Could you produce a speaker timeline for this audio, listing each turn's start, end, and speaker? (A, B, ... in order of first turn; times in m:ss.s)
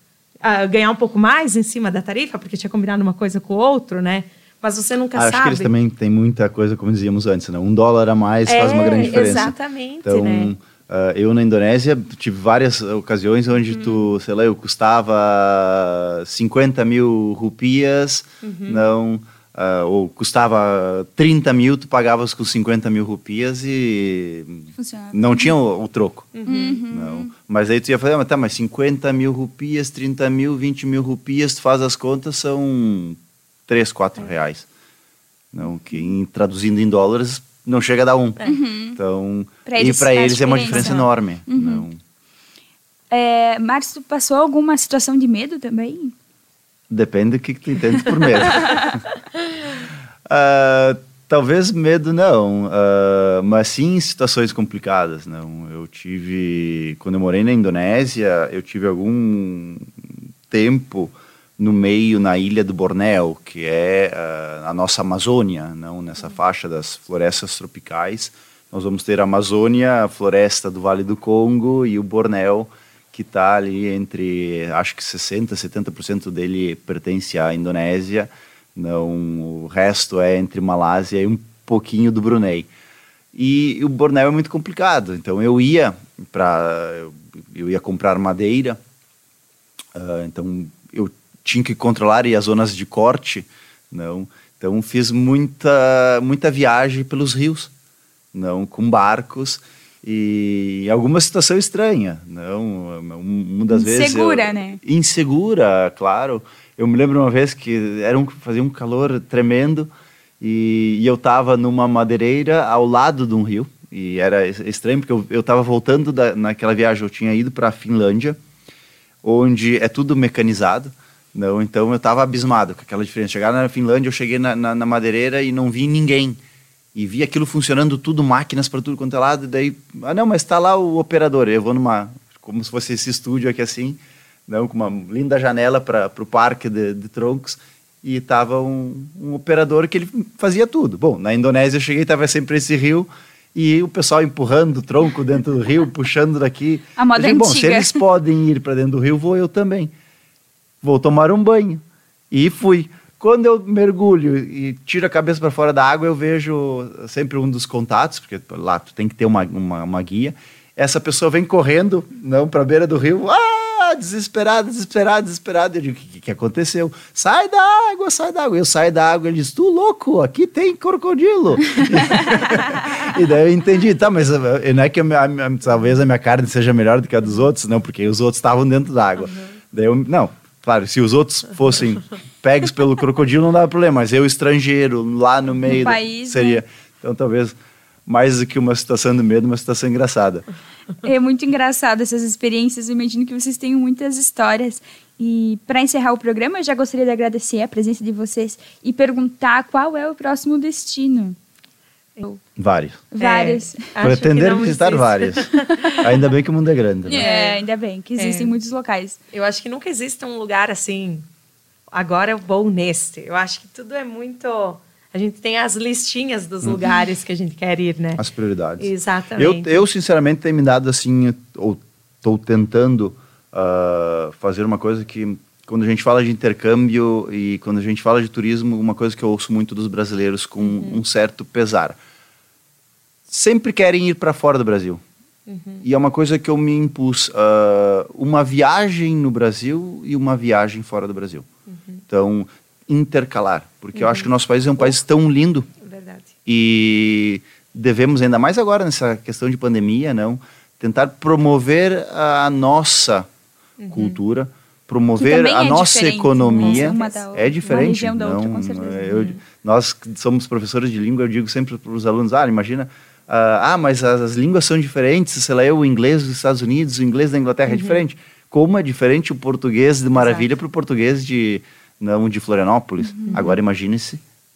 0:00.4-0:05.7 A
0:05.1-0:26.3 B
0:08.4-0:10.5 A
0:18.4-0:18.9 A
0:24.7-0:25.5 C
0:26.3-0:26.8 A
0:26.4-0:27.3 C
0:26.9-0:34.7 B
0:35.5-0:42.0 B
0:38.4-0:39.0 C
0:39.6-0:41.8 C
0:40.7-0:41.0 A
0:43.1-0:46.1 C
0:46.9-0:49.0 B
0:50.2-1:22.7 B
1:23.3-1:28.8 B
1:29.9-1:37.7 B
1:38.3-1:58.4 B
1:43.7-1:44.8 C
1:59.2-2:06.4 B
2:06.9-2:29.9 B
2:27.0-2:28.0 C
2:30.8-3:07.6 B
3:05.7-3:06.6 C
3:08.1-3:10.4 B
3:11.0-3:21.4 C
3:22.6-3:23.1 B
3:23.1-3:23.8 C
3:23.2-3:26.0 A
3:24.0-3:27.3 B
3:27.1-3:29.2 C
3:27.1-3:27.6 A
3:28.2-3:28.5 A
3:29.3-3:31.2 A
3:31.9-3:38.2 A
3:38.2-3:52.0 B
3:38.8-3:39.8 A
3:50.6-3:51.0 A
3:53.3-3:55.0 B
3:55.5-3:55.8 A
3:55.8-4:01.4 B
4:01.7-4:02.0 A
4:02.1-4:05.7 B
4:03.9-4:04.9 A
4:05.8-4:06.3 A
4:06.4-4:13.3 B
4:13.8-4:14.2 A
4:13.9-4:34.2 B
4:15.2-4:19.3 C
4:16.6-4:17.2 A
4:19.1-4:19.4 A
4:27.7-4:28.0 A
4:30.2-4:30.5 A
4:33.0-4:33.4 C
4:33.3-4:33.6 A